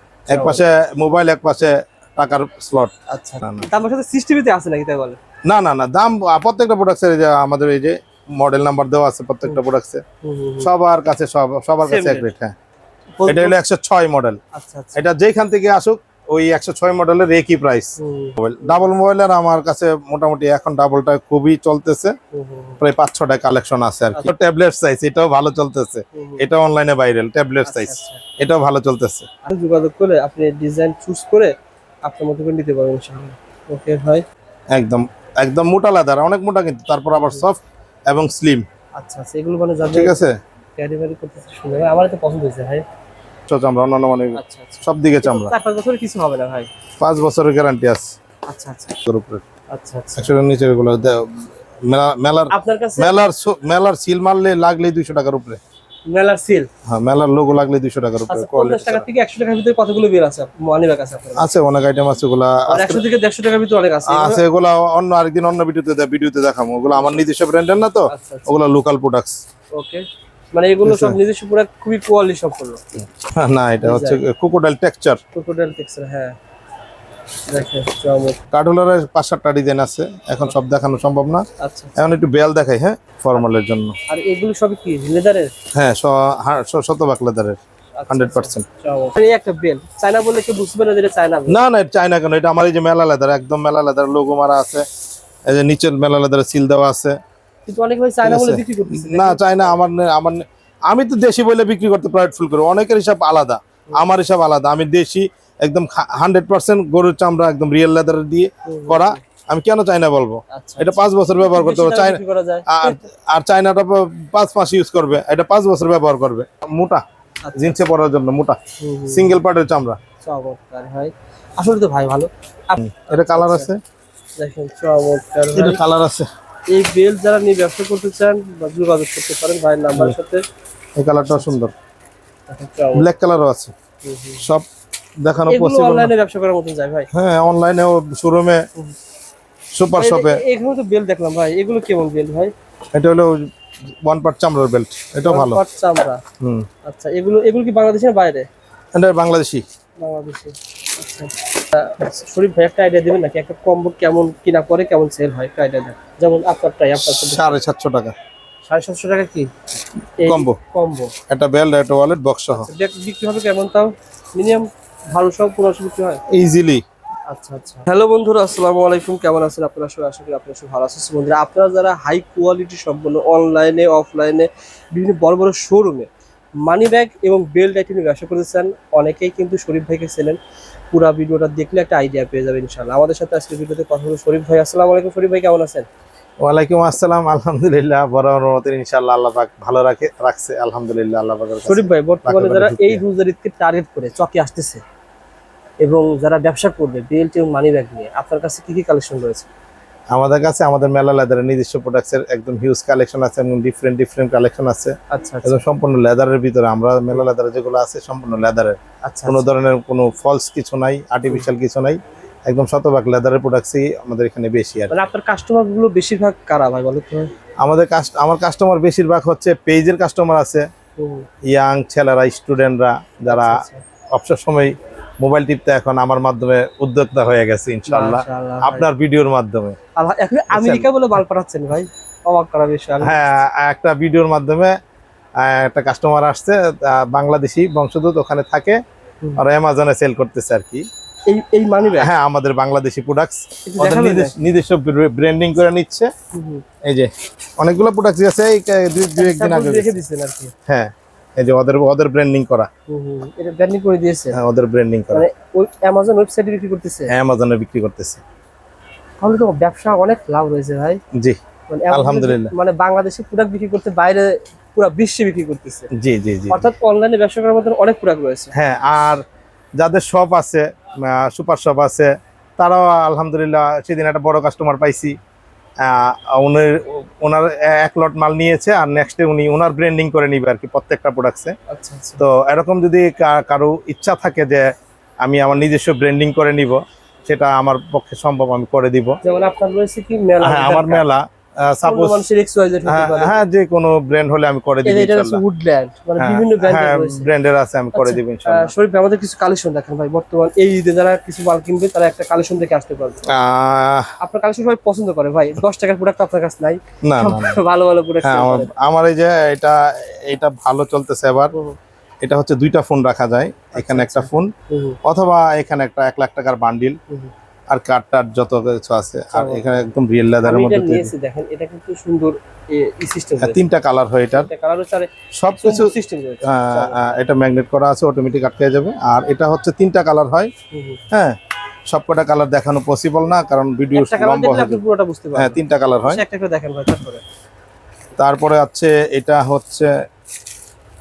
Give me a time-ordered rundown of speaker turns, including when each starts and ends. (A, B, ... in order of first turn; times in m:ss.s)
0:00.3-0:00.6 A
0:00.3-0:03.7 B
0:03.1-0:05.2 A
0:05.4-0:10.0 B
0:10.2-0:10.7 A
0:10.6-0:12.5 B
0:11.8-0:12.3 A
0:13.2-0:13.6 A
0:13.3-0:14.4 B
0:14.5-0:15.0 A
0:14.9-0:22.2 B
0:18.0-0:18.9 A
0:22.3-0:22.8 A
0:22.8-0:29.3 B
0:26.1-0:26.4 A
0:27.6-0:28.2 A
0:29.4-0:34.2 A
0:34.7-0:38.6 B
0:37.2-0:37.4 A
0:39.0-0:42.8 A
0:39.9-0:40.4 B
0:43.5-0:45.5 B
0:44.3-0:46.7 A
0:47.0-0:48.1 B
0:48.5-0:49.0 A
0:49.0-0:49.4 B
0:49.7-0:50.3 A
0:50.2-0:55.6 B
0:52.5-0:53.2 A
0:56.1-0:56.7 A
0:56.9-0:59.0 B
0:58.3-1:01.5 A
1:01.4-1:03.0 B
1:02.7-1:04.4 A
1:04.1-1:09.4 B
1:06.9-1:07.2 A
1:08.1-1:08.5 A
1:09.7-1:12.8 A
1:10.8-1:11.2 B
1:13.2-1:15.2 B
1:13.8-1:14.2 A
1:15.3-1:16.3 A
1:17.5-1:18.4 A
1:18.5-1:21.4 B
1:21.6-1:22.0 A
1:22.0-1:24.0 B
1:24.1-1:25.5 A
1:25.7-1:27.6 B
1:28.0-1:31.6 A
1:28.1-1:28.6 B
1:31.5-1:34.8 B
1:35.4-1:37.2 B
1:37.6-1:39.8 A
1:38.2-1:57.0 B
1:43.9-1:44.1 A
1:48.6-1:49.2 A
1:50.5-1:53.0 A
1:57.4-1:57.8 A
1:57.5-2:00.0 B
1:58.8-1:59.4 A
2:00.2-2:03.7 A
2:02.8-2:03.8 B
2:04.4-2:05.8 A
2:05.5-2:06.3 B
2:06.7-2:10.4 A
2:11.0-2:11.7 B
2:12.5-2:13.0 A
2:12.9-2:13.7 B
2:14.0-2:14.4 A
2:14.4-2:14.6 B
2:15.2-2:16.1 B
2:15.5-2:17.1 A
2:17.1-2:18.6 B
2:19.7-2:20.4 B
2:19.9-2:22.5 A
2:22.9-2:23.5 B
2:24.0-2:25.6 B
2:25.2-2:26.2 A
2:26.4-2:26.7 B
2:26.8-2:28.5 A
2:28.9-2:29.6 B
2:30.0-2:37.6 A
2:37.0-2:38.1 B
2:38.6-2:39.5 A
2:40.2-2:41.1 A
2:40.2-2:40.6 B
2:41.3-2:42.7 B
2:42.5-2:46.2 A
2:46.3-2:46.8 B
2:47.3-2:56.1 A
2:56.6-3:00.4 A
3:00.9-3:05.9 A
3:06.4-3:13.0 B
3:11.7-3:14.8 A
3:15.8-3:19.5 A
3:20.1-3:35.0 B
3:25.1-3:25.6 A
3:29.0-3:29.4 A
3:34.9-3:37.3 A
3:37.6-3:40.7 B
3:41.0-3:41.3 A
3:41.4-3:49.8 B
3:43.3-3:43.8 A
3:47.9-3:48.9 A
3:50.0-3:53.4 A
3:50.5-3:50.9 B
3:53.0-3:54.8 B
3:55.4-3:58.8 B
3:59.4-4:00.8 B
4:01.3-4:02.1 A
4:01.8-4:06.1 B
4:03.6-4:04.4 A
4:06.3-4:06.6 A
4:06.8-4:10.0 B
4:09.2-4:10.5 A
4:10.7-4:12.7 B
4:12.9-4:14.4 A
4:14.3-4:15.3 B
4:15.1-4:17.1 A
4:17.1-4:18.2 B
4:19.2-4:21.0 A
4:21.1-4:22.5 B
4:21.7-4:25.9 A
4:25.9-4:26.7 B
4:26.5-4:28.5 A
4:28.5-4:29.2 B
4:29.8-4:35.2 B
4:35.8-4:41.5 B
4:41.7-4:42.2 A
4:42.2-4:49.2 B
4:49.2-4:51.0 A
4:50.4-4:52.2 B
4:51.8-4:53.3 A
4:52.8-4:55.4 B
4:54.8-4:57.3 A
4:56.2-4:58.7 B
4:57.9-5:03.3 A
5:03.2-5:04.1 B
5:04.2-5:08.7 A
5:07.0-5:07.6 B
5:08.2-5:11.5 B
5:11.5-5:11.8 A
5:12.2-5:14.5 B
5:13.7-5:15.0 A
5:15.0-5:17.0 B
5:17.7-5:21.1 B
5:19.3-5:23.6 A
5:23.4-5:24.5 B
5:24.3-5:27.2 A
5:25.3-5:30.5 B
5:30.7-5:31.0 A
5:31.1-5:31.4 B
5:31.9-5:34.8 B
5:33.9-5:37.2 A
5:35.3-5:36.2 B
5:38.2-5:39.9 B